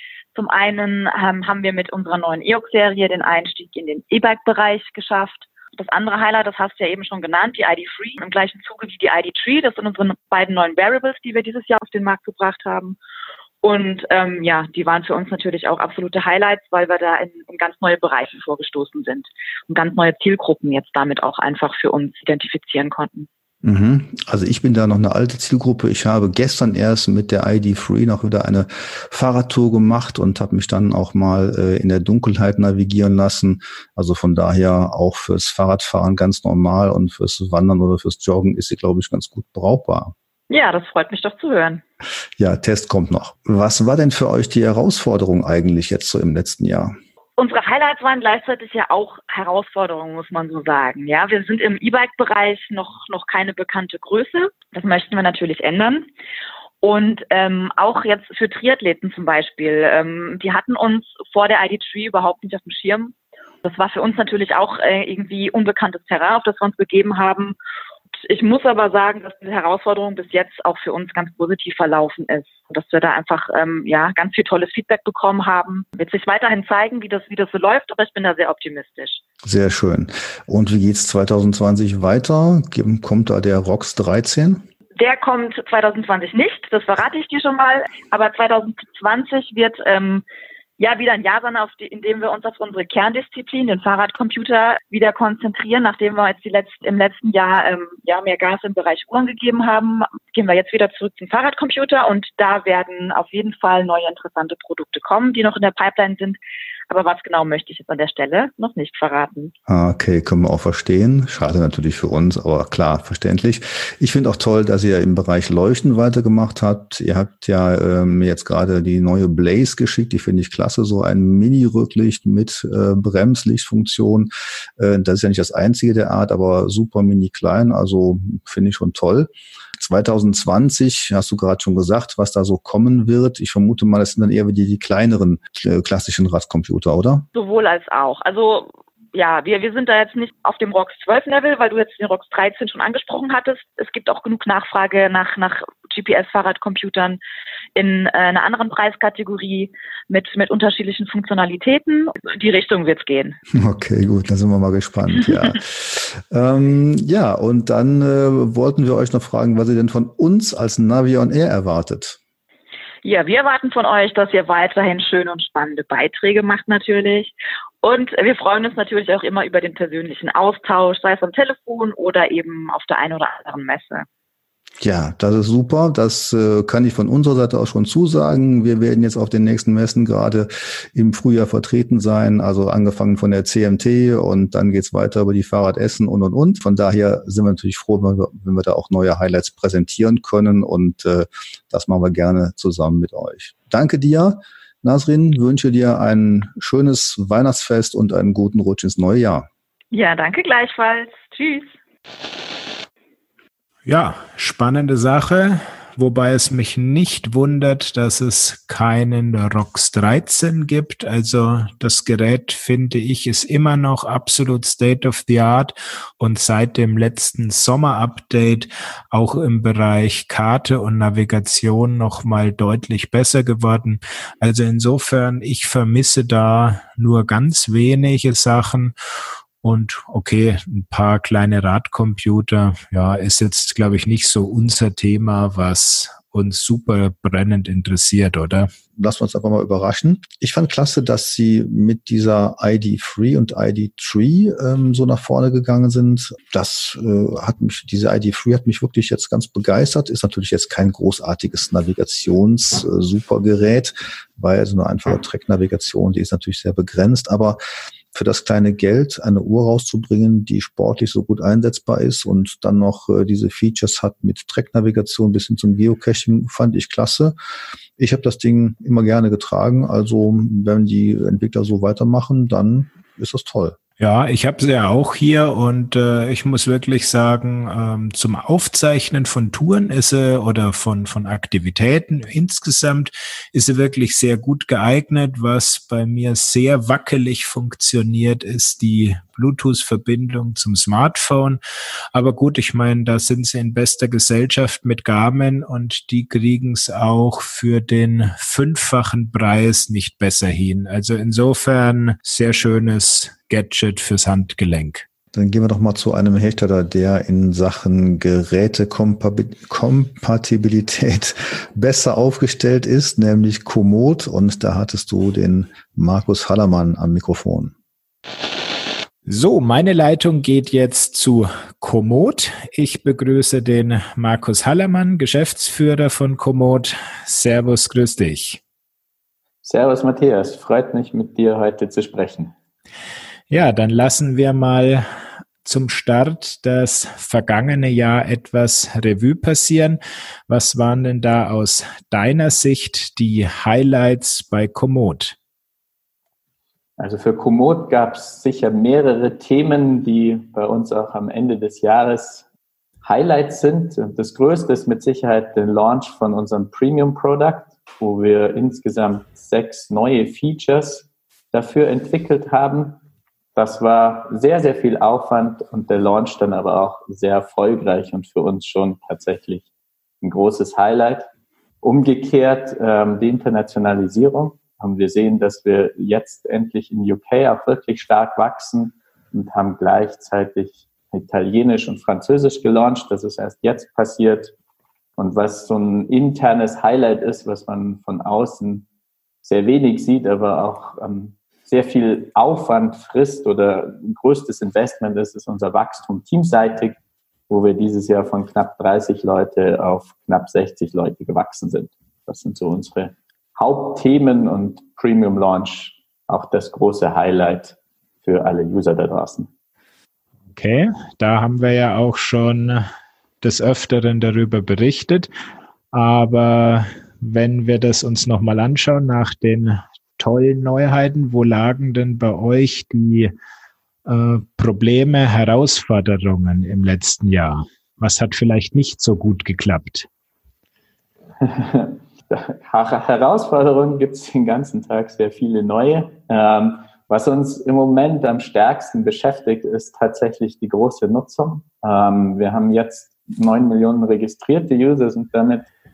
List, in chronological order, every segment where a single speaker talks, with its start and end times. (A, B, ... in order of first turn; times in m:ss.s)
0:00.4-0:13.0 A
0:13.6-0:23.3 A
0:23.6-0:40.1 B
0:40.5-0:41.8 A
0:42.4-0:47.0 B
0:47.4-0:56.1 A
0:56.8-1:07.6 A
1:08.2-1:19.2 A
1:19.4-1:24.6 B
1:25.0-1:30.2 A
1:30.8-1:46.4 A
1:46.9-1:49.5 A
1:49.7-2:17.3 B
2:17.3-2:27.2 A
2:27.8-2:33.4 A
2:33.5-2:42.2 B
2:43.0-2:54.1 A
2:54.8-3:19.5 B
3:19.9-3:21.7 A
3:23.9-3:48.9 C
3:49.6-3:58.7 C
3:59.0-4:17.6 B
4:18.1-4:27.4 B
4:28.0-4:33.8 B
4:34.0-4:51.6 C
4:52.1-5:05.0 C
5:05.3-5:17.7 B
5:19.3-5:28.6 C
5:29.6-5:32.5 D
5:33.5-5:35.1 C
5:35.6-5:45.4 C
5:47.0-5:52.4 D
5:53.0-6:03.0 D
6:03.6-6:09.7 D
6:10.2-6:11.3 D
6:11.8-6:24.5 D
6:25.2-6:28.9 D
6:29.4-6:37.0 D
6:37.5-6:49.5 D
6:50.6-6:52.9 C
6:53.4-6:55.3 C
6:55.9-7:03.3 C
7:04.1-7:10.1 C
7:11.4-7:25.7 D